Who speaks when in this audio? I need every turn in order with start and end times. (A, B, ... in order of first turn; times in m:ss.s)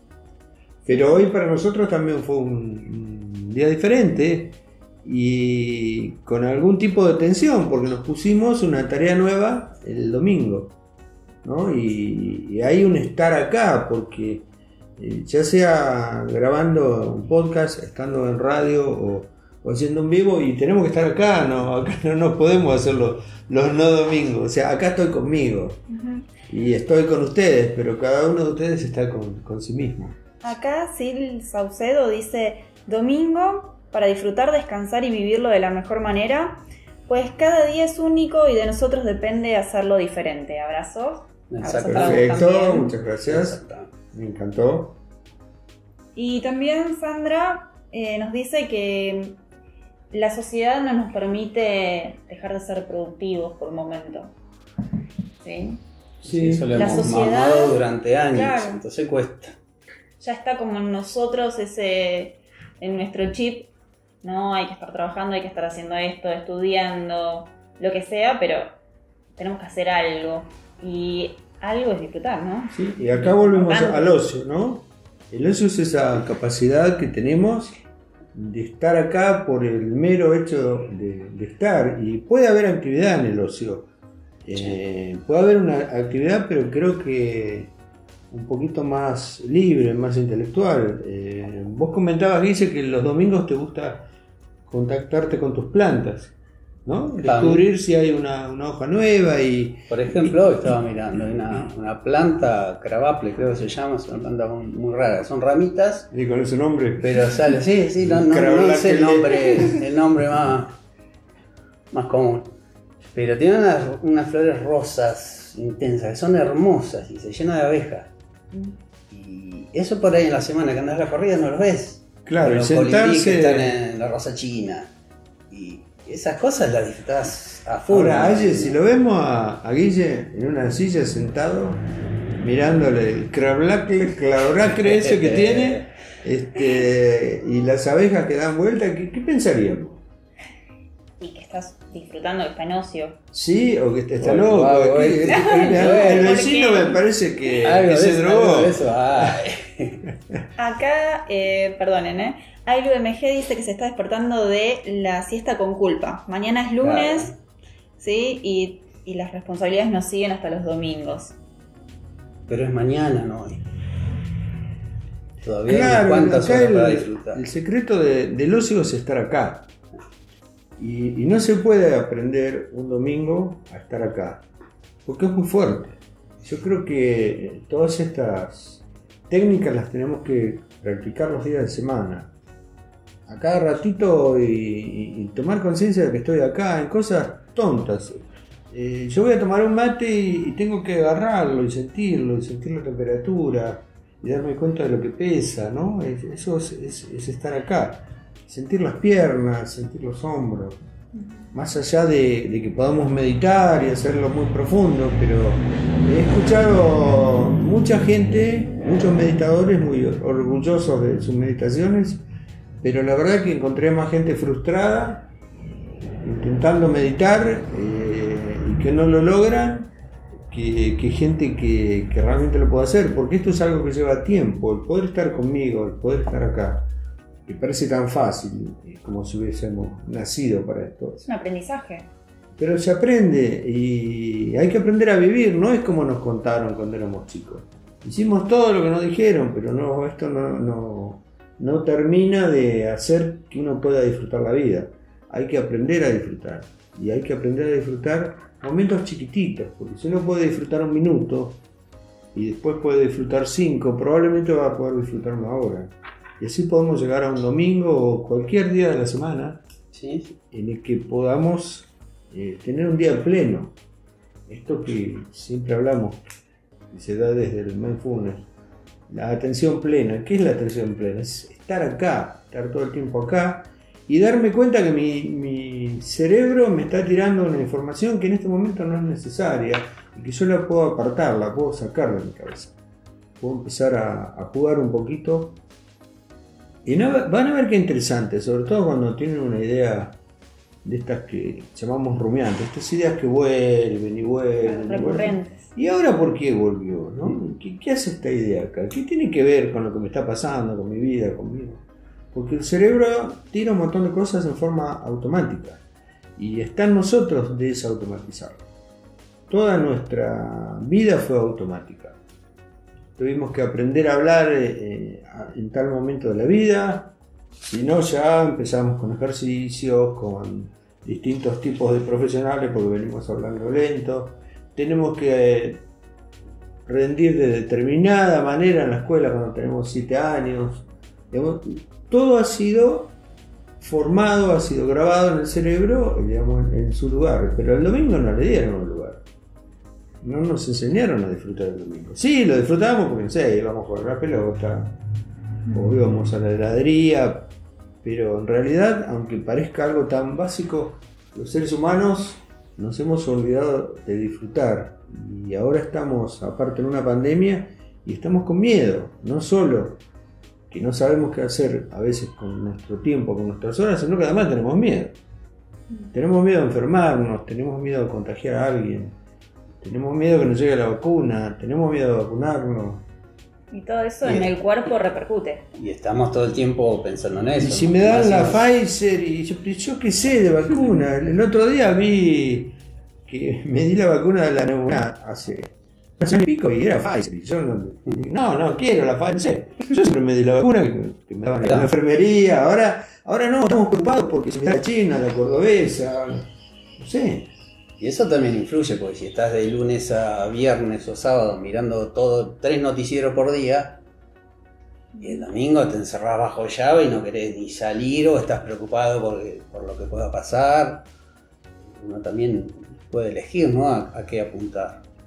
0:00.8-0:10.8 A
0:00.9-0:01.2 B
0:11.4-0:14.4 A
0:15.0-0:25.8 A
0:25.9-0:26.3 B
0:26.5-0:30.2 A
0:30.4-0:42.9 B
0:41.5-0:43.9 C
0:41.8-0:43.6 A
0:44.1-0:45.0 A
0:46.1-0:49.4 B
0:50.1-0:54.3 B
0:55.4-0:55.8 B
0:56.2-0:57.1 A
0:56.2-0:59.5 C
0:56.7-0:57.8 B
0:58.3-0:58.8 B
1:00.2-1:03.7 B
1:04.2-1:08.7 B
1:09.4-1:14.2 B
1:12.7-1:17.7 A
1:18.3-1:23.9 A
1:24.4-1:27.7 A
1:28.3-1:34.1 A
1:34.7-1:36.3 A
1:36.8-1:40.4 A
1:37.2-1:37.6 C
1:39.9-1:46.1 C
1:46.1-1:49.6 A
1:47.2-1:50.8 C
1:51.9-1:52.5 C
1:53.1-1:58.1 C
1:59.1-2:04.9 C
2:02.2-2:03.8 A
2:05.5-2:08.8 C
2:07.9-2:11.8 A
2:12.4-2:20.0 A
2:14.9-2:15.9 C
2:21.2-2:23.2 B
2:23.3-2:29.4 A
2:24.2-2:26.4 C
2:25.3-2:27.0 B
2:27.6-2:30.0 C
2:30.6-2:37.3 B
2:36.8-2:37.4 C
2:38.0-2:41.3 B
2:42.5-2:43.6 C
2:45.4-2:47.4 C
2:45.6-2:49.7 A
2:50.8-2:54.4 A
2:55.0-3:02.3 A
3:03.3-3:20.8 A
3:21.1-3:21.5 B
3:21.5-3:32.2 A
3:32.8-3:35.3 A
3:36.2-3:39.9 A
3:40.5-3:46.9 A
3:47.4-3:51.2 A
3:51.2-3:52.1 B
3:52.6-4:11.6 A
4:12.3-4:19.6 A
4:19.9-4:20.4 C
4:20.5-4:23.7 A
4:24.5-4:26.2 A
4:26.9-4:28.5 A
4:29.1-4:42.8 A
4:43.4-4:45.6 A
4:46.8-4:50.2 A
4:50.8-5:05.8 A
4:54.6-4:55.7 B
5:06.4-5:08.6 A
5:09.5-5:12.2 A
5:13.2-5:17.1 A
5:17.6-5:25.8 A
5:26.9-5:33.1 A
5:33.8-5:39.2 A
5:40.2-5:45.0 A
5:45.7-5:47.5 A
5:48.0-6:00.0 A
6:00.7-6:05.2 A
6:06.1-6:09.1 A
6:09.8-6:13.0 A
6:13.7-6:15.6 B
6:14.2-6:14.5 C
6:15.7-6:18.6 C
6:17.6-6:37.5 A
6:31.6-6:31.9 C
6:38.0-6:44.0 C
6:45.1-6:45.4 B
6:45.2-6:51.1 C
6:51.9-6:55.0 C